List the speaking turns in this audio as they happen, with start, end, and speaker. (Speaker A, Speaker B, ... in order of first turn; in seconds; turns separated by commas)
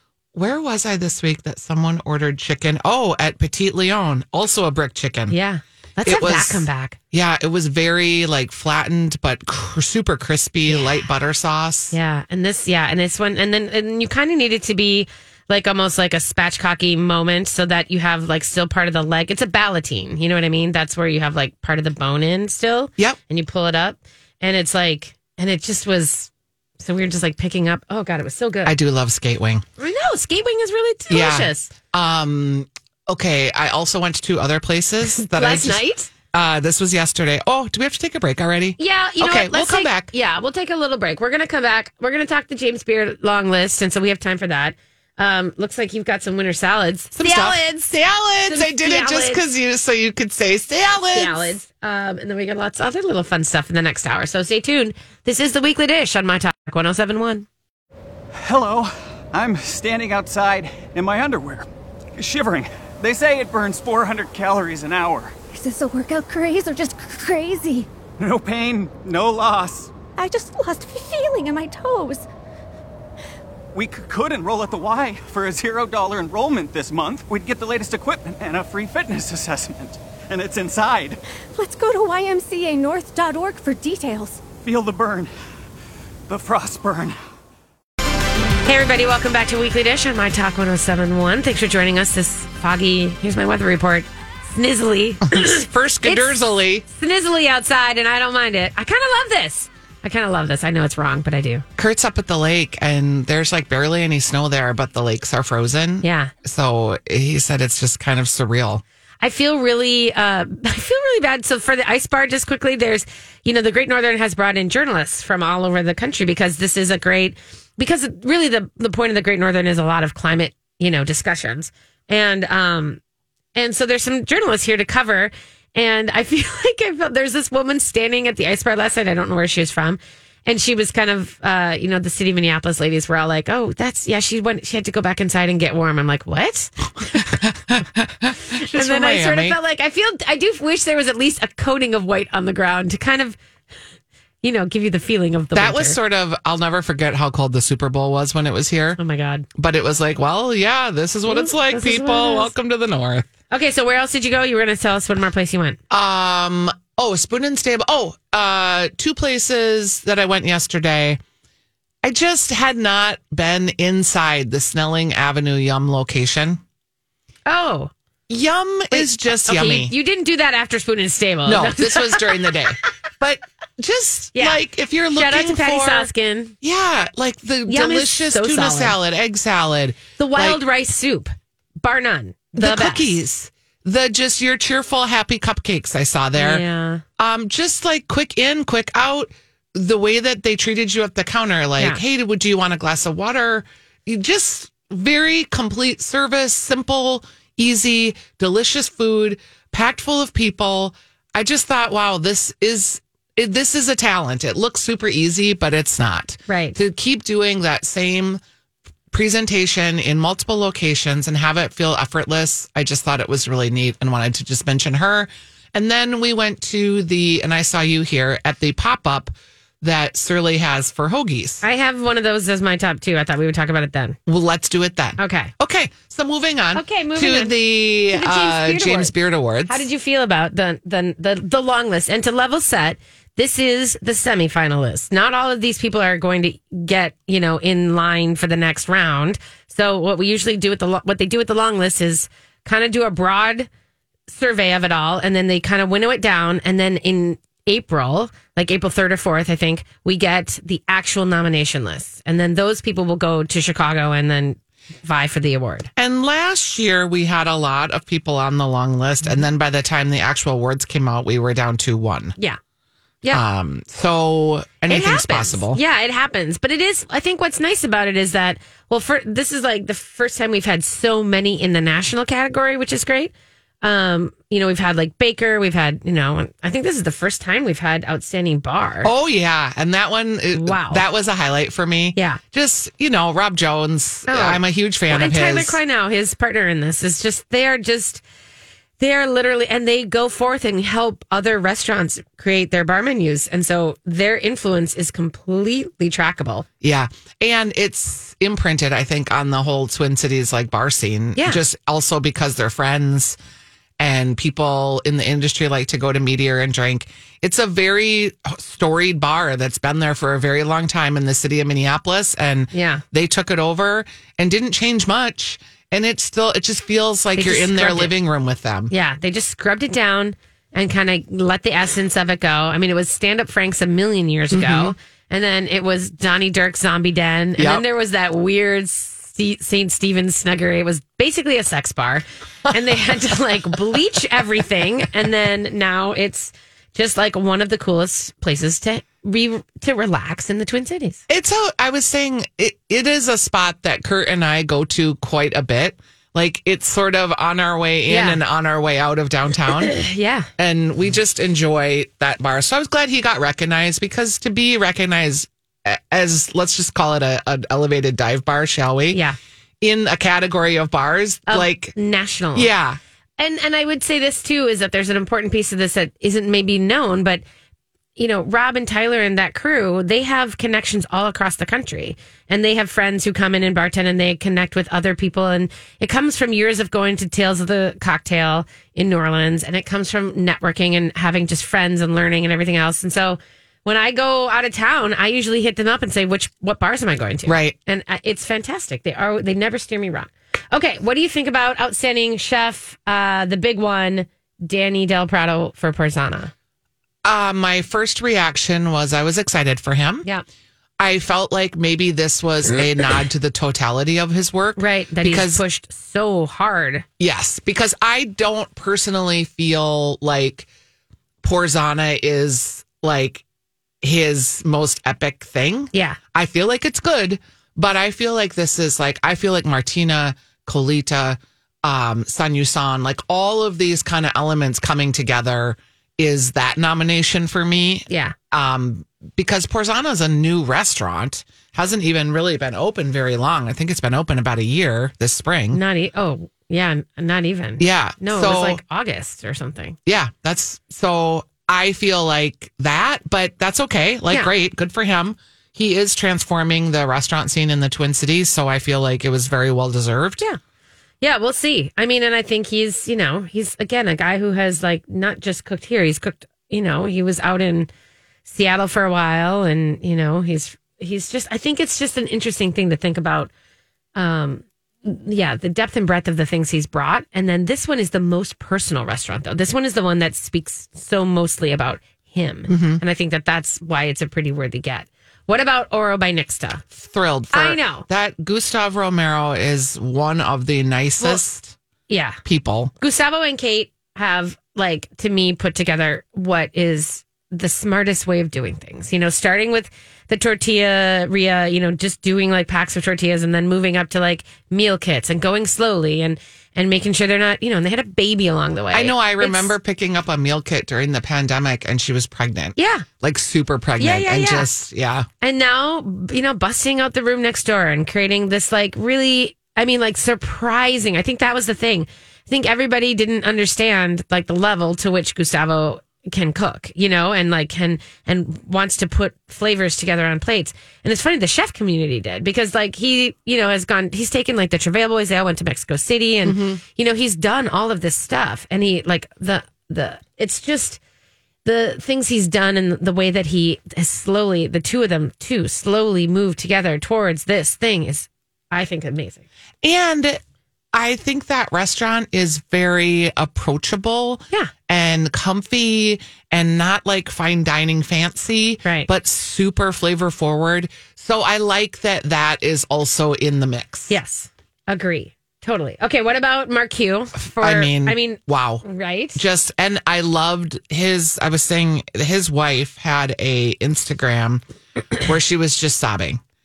Speaker A: 0.3-5.3, Speaker B: 5.3-7.0, Speaker A: 6.0-11.9, Speaker B: 10.7-11.0, Speaker B: 11.9-28.7, Speaker A: 28.6-29.6, Speaker B: 29.8-31.7, Speaker A: 31.1-35.8, Speaker B: 35.0-36.1, Speaker A: 36.3-40.1, Speaker B: 38.8-47.9, Speaker A: 47.1-51.6, Speaker B: 48.5-49.4, Speaker B: 51.1-57.5, Speaker C: 58.3-61.6, Speaker C: 62.2-65.3, Speaker D: 65.5-67.9, Speaker C: 68.2-69.9, Speaker D: 70.2-72.2, Speaker C: 73.7-81.2, Speaker D: 81.5-84.4, Speaker C: 84.6-85.3, Speaker C: 86.3-87.2, Speaker B: 88.6-101.6, Speaker A: 95.3-96.8, Speaker A: 101.8-108.8, Speaker B: 106.0-106.3, Speaker B: 109.2-123.0, Speaker B: 123.5-137.2, Speaker A: 137.0-139.6, Speaker B: 138.7-143.4, Speaker B: 144.4-146.0, Speaker A: 145.5-149.0, Speaker B: 149.0-149.5, Speaker A: 149.5-153.3, Speaker B: 151.2-152.5, Speaker B: 153.5-155.8, Speaker A: 155.9-161.2, Speaker A: 162.0-166.6, Speaker B: 167.5-167.9, Speaker A: 168.3-169.9, Speaker B: 168.9-172.6, Speaker A: 171.4-176.1, Speaker B: 174.3-174.6, Speaker B: 175.1-176.5, Speaker A: 176.6-180.6, Speaker B: 177.7-179.0, Speaker B: 180.2-183.2, Speaker A: 182.6-186.6, Speaker B: 186.3-187.0, Speaker A: 187.2-208.4, Speaker B: 206.5-206.8, Speaker A: 209.1-221.6, Speaker B: 221.6-224.2, Speaker A: 224.3-229.8, Speaker B: 225.2-225.5, Speaker B: 226.7-227.6, Speaker B: 228.1-229.1, Speaker B: 229.7-243.7, Speaker B: 244.3-255.9, Speaker A: 255.9-262.3, Speaker A: 263.3-265.8, Speaker B: 264.9-279.1, Speaker A: 279.0-285.8, Speaker B: 280.5-281.0, Speaker B: 284.3-288.2, Speaker B: 289.0-296.6, Speaker A: 296.8-303.4, Speaker A: 304.0-318.9, Speaker B: 312.7-313.0, Speaker B: 317.4-318.1, Speaker B: 318.9-341.2, Speaker A: 324.5-324.9, Speaker A: 327.6-327.8, Speaker A: 341.3-349.9, Speaker B: 348.1-348.4, Speaker B: 349.7-350.5, Speaker A: 350.6-359.2, Speaker A: 359.8-361.9, Speaker B: 361.5-362.7, Speaker A: 362.5-363.0, Speaker B: 363.4-367.4, Speaker B: 368.1-396.5, Speaker A: 387.4-387.7, Speaker A: 397.2-400.2, Speaker A: 401.0-405.6, Speaker B: 404.8-407.0, Speaker A: 407.2-410.7, Speaker A: 411.4-413.4, Speaker A: 414.0-435.8, Speaker B: 415.9-416.2, Speaker B: 428.1-428.3, Speaker B: 435.7-440.0, Speaker A: 437.8-438.8, Speaker A: 440.1-450.4, Speaker B: 451.2-457.9, Speaker B: 458.4-463.5, Speaker B: 464.1-476.8, Speaker A: 472.7-473.0, Speaker A: 476.9-481.8, Speaker B: 477.5-478.1, Speaker B: 482.1-482.4, Speaker A: 482.4-482.9, Speaker B: 483.0-499.7, Speaker A: 498.9-505.3, Speaker B: 502.8-503.1, Speaker B: 504.0-504.7, Speaker B: 505.4-531.0, Speaker A: 526.4-526.8, Speaker B: 531.6-539.4, Speaker A: 539.8-540.4, Speaker A: 540.9-554.1, Speaker B: 548.8-549.1, Speaker B: 554.1-559.4, Speaker A: 557.3-564.6, Speaker A: 565.2-566.4